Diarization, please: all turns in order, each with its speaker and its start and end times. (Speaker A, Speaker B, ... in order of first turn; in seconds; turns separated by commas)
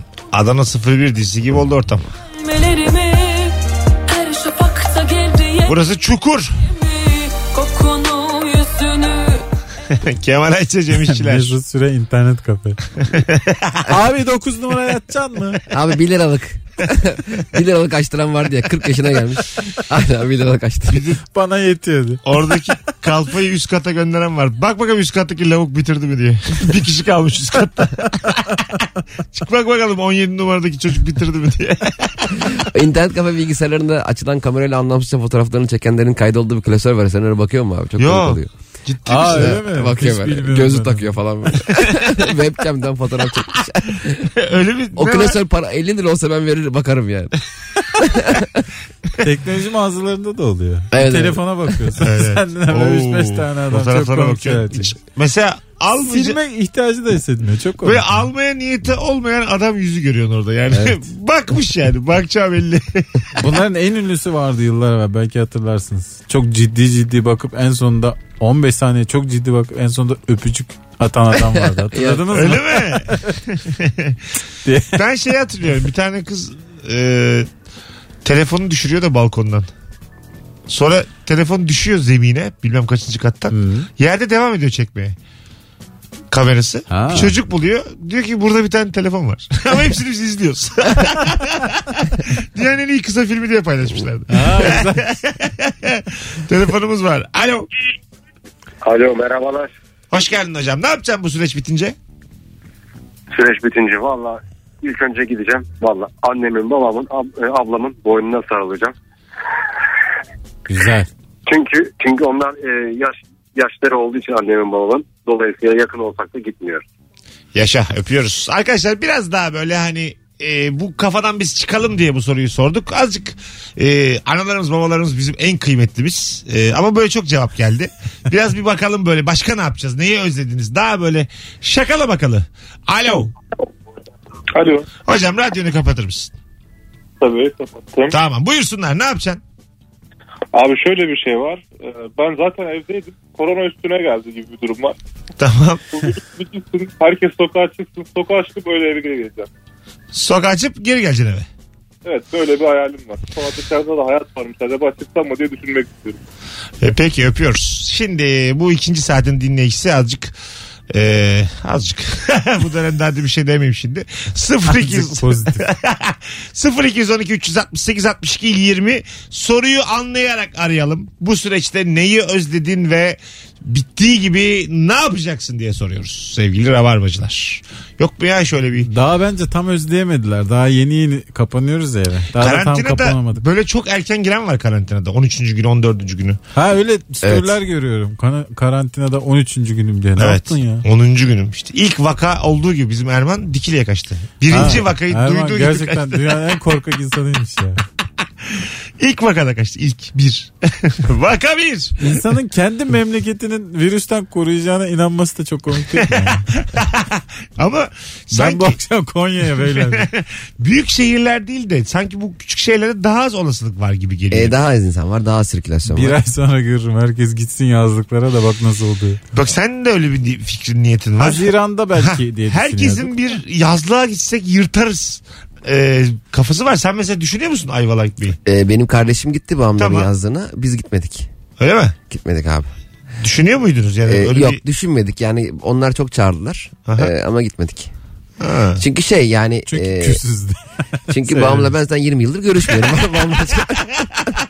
Speaker A: 0.3-2.1, Speaker B: 2.3-3.6, Speaker B: 4.1-5.8, Speaker A: 5.7-6.6, Speaker B: 6.6-9.5, Speaker A: 9.9-11.6, Speaker C: 11.0-12.8, Speaker A: 13.0-13.9, Speaker C: 13.9-15.6, Speaker D: 15.7-21.1, Speaker A: 20.9-21.2, Speaker C: 21.3-22.2, Speaker A: 22.2-28.7, Speaker A: 29.3-32.6, Speaker D: 32.6-38.5, Speaker A: 38.0-39.6, Speaker C: 39.0-41.2, Speaker D: 39.3-44.3, Speaker A: 44.4-45.4, Speaker D: 44.9-47.3, Speaker D: 47.9-48.6, Speaker C: 49.2-54.9, Speaker D: 50.9-51.4, Speaker A: 52.0-56.4, Speaker C: 56.0-58.2, Speaker A: 57.8-63.2, Speaker D: 60.7-61.0, Speaker C: 63.3-73.2, Speaker D: 71.4-72.3, Speaker A: 72.3-74.2, Speaker C: 74.6-75.0, Speaker A: 74.9-77.5, Speaker A: 78.2-79.7, Speaker A: 80.7-85.2, Speaker C: 83.5-83.9, Speaker A: 86.3-97.7, Speaker C: 86.9-87.3, Speaker C: 94.3-95.0, Speaker E: 98.8-99.7, Speaker A: 100.1-101.9, Speaker E: 103.3-108.9, Speaker C: 110.7-111.1, Speaker E: 111.5-116.8, Speaker A: 117.5-133.3, Speaker F: 134.5-134.9, Speaker A: 135.1-136.3, Speaker F: 137.2-138.2, Speaker A: 138.1-139.4, Speaker F: 140.5-144.9, Speaker A: 145.4-145.8, Speaker F: 145.9-149.5, Speaker A: 150.1-151.5, Speaker F: 152.0-156.2, Speaker A: 156.8-160.3, Speaker A: 160.9-178.9, Speaker C: 164.7-165.6, Speaker C: 178.8-183.4, Speaker A: 182.3-186.4, Speaker C: 186.5-190.8, Speaker D: 187.2-187.5, Speaker A: 190.2-196.2, Speaker C: 194.5-197.8, Speaker A: 198.4-202.1, Speaker C: 202.0-206.4, Speaker A: 206.1-208.8, Speaker C: 208.3-210.1, Speaker A: 209.8-214.5, Speaker D: 214.3-216.2, Speaker C: 215.9-219.2, Speaker A: 219.3-221.5, Speaker C: 221.2-223.1, Speaker A: 222.0-228.4, Speaker D: 228.4-231.3, Speaker A: 229.8-230.1, Speaker A: 231.6-231.9, Speaker D: 232.1-232.7, Speaker A: 233.2-234.6, Speaker D: 234.0-237.9, Speaker A: 238.4-238.8, Speaker D: 238.8-240.2, Speaker C: 239.7-241.7, Speaker D: 241.1-244.1